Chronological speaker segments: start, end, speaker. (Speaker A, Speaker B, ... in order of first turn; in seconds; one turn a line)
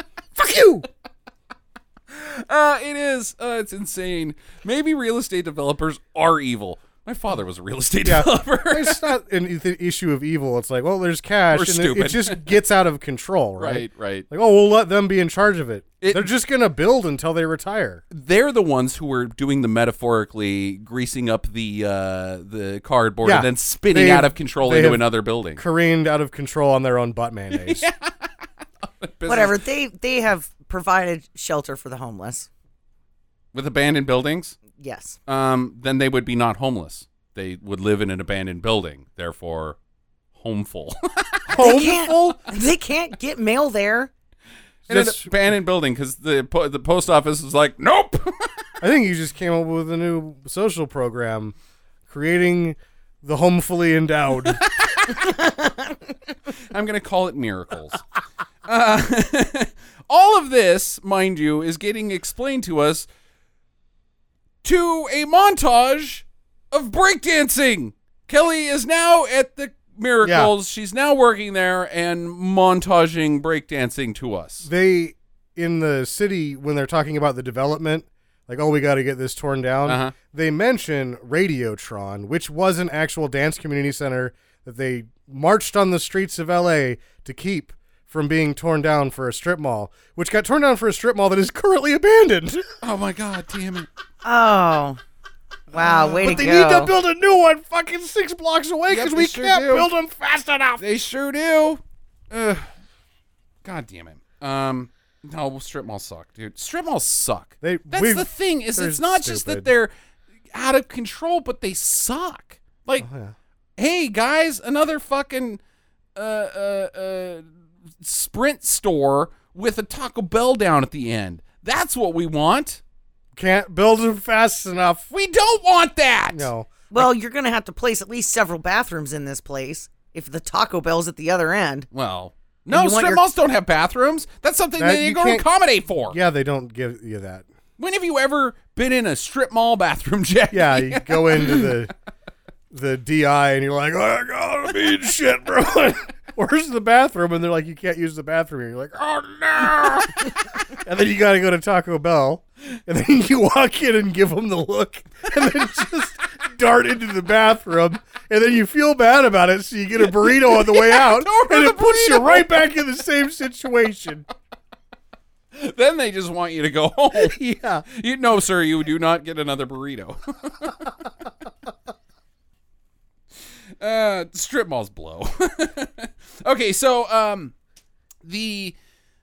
Speaker A: 0.3-0.9
Speaker B: 2.1-9.0
Speaker A: 8.0-18.0
Speaker B: 11.5-12.6
Speaker B: 13.6-14.3
Speaker B: 16.0-16.3
Speaker B: 18.1-25.6
Speaker A: 23.2-27.9
Speaker B: 27.5-29.6
Speaker C: 29.3-32.5
Speaker B: 33.5-34.6
Speaker C: 34.8-35.2
Speaker B: 35.3-39.8
Speaker B: 40.4-41.5
Speaker A: 41.5-42.5
Speaker C: 41.6-44.1
Speaker B: 44.9-48.6
Speaker A: 44.9-45.3
Speaker A: 48.8-51.5
Speaker A: 52.1-54.6
Speaker B: 54.6-55.3
Speaker C: 55.4-55.8
Speaker B: 56.7-58.0
Speaker B: 58.7-63.1
Speaker B: 64.6-74.7
Speaker A: 70.2-70.5
Speaker A: 74.6-92.7
Speaker B: 79.9-80.1
Speaker B: 92.8-93.9
Speaker C: 94.2-95.0
Speaker A: 95.7-100.8
Speaker C: 95.7-96.9
Speaker B: 98.9-99.9
Speaker B: 100.8-102.7
Speaker B: 103.6-109.9
Speaker A: 107.6-109.7
Speaker B: 110.5-113.1
Speaker A: 113.0-113.3
Speaker B: 113.8-115.6
Speaker B: 116.2-117.5
Speaker B: 118.0-122.8
Speaker A: 123.3-125.1
Speaker B: 125.1-126.5
Speaker A: 126.3-126.8
Speaker C: 126.9-131.9
Speaker B: 131.9-136.2
Speaker C: 132.7-133.2
Speaker A: 134.8-135.5
Speaker A: 136.1-137.5
Speaker B: 137.8-141.7
Speaker A: 140.5-141.9
Speaker A: 142.7-164.3
Speaker B: 160.0-162.7
Speaker B: 165.5-170.9
Speaker A: 167.1-167.9
Speaker B: 173.8-177.5
Speaker B: 178.2-178.8